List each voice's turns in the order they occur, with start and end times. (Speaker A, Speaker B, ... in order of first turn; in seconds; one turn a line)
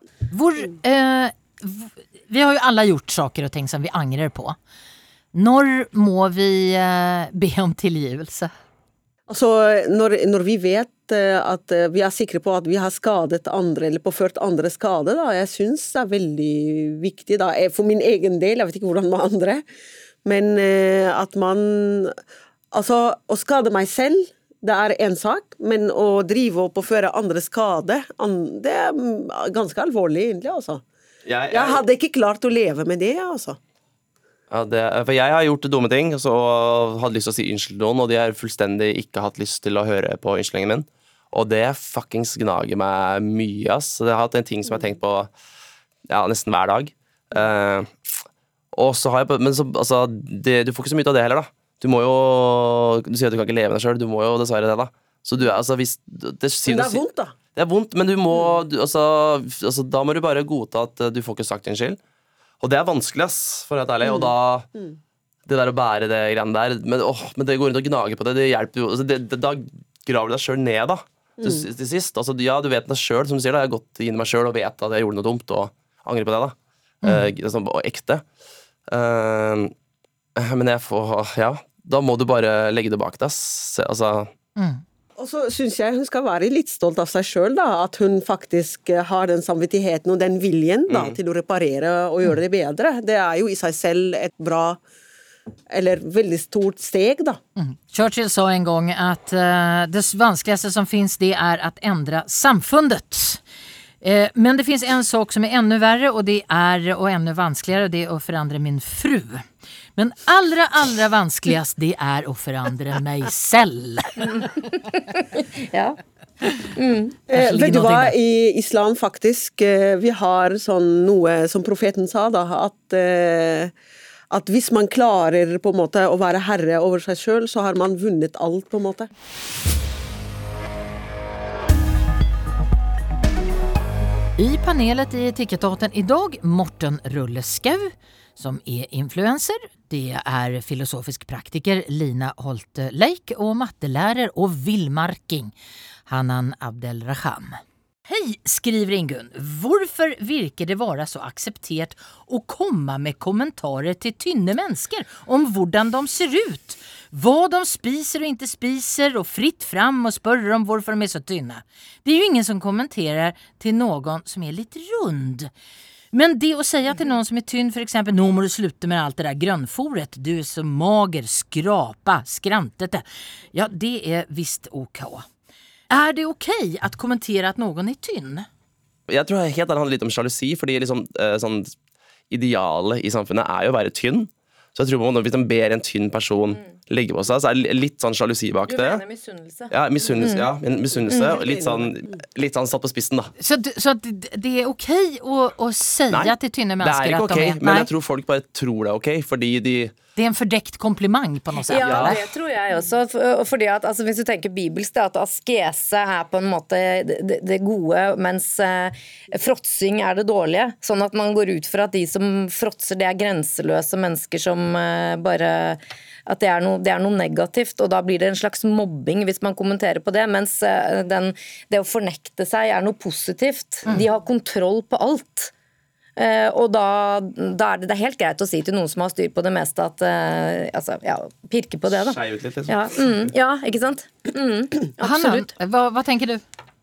Speaker A: 0.3-4.6
Speaker A: 5.3-8.5
Speaker B: 9.3-19.6
Speaker B: 20.2-22.2
Speaker B: 22.7-30.8
Speaker C: 31.3-31.8
Speaker B: 31.5-33.6
Speaker C: 34.5-45.3
Speaker C: 46.1-48.1
Speaker C: 48.7-57.0
Speaker B: 56.7-57.4
Speaker C: 57.5-62.0
Speaker C: 62.6-64.7
Speaker B: 64.0-65.0
Speaker C: 65.5-78.2
Speaker A: 77.0-77.3
Speaker C: 78.9-79.7
Speaker C: 80.4-84.3
Speaker A: 84.6-84.8
Speaker B: 85.2-94.8
Speaker C: 90.9-91.2
Speaker B: 95.7-97.4
Speaker A: 97.6-103.4
Speaker A: 104.0-114.5
Speaker D: 114.3-117.2
Speaker B: 117.3-123.7
Speaker A: 117.3-118.2
Speaker B: 124.3-129.1
Speaker A: 134.4-145.5
Speaker A: 146.1-165.5
Speaker A: 166.1-175.2
Speaker A: 175.9-178.5
Speaker C: 179.1-181.8
Speaker C: 182.3-189.0
Speaker D: 188.7-190.5
Speaker C: 189.7-193.3
Speaker B: 191.1-191.9
Speaker A: 193.4-197.9
Speaker C: 196.1-199.9
Speaker A: 200.2-202.2
Speaker D: 201.7-225.5
Speaker C: 201.7-202.2
Speaker D: 226.2-235.5
Speaker C: 231.9-233.3
Speaker A: 235.0-236.4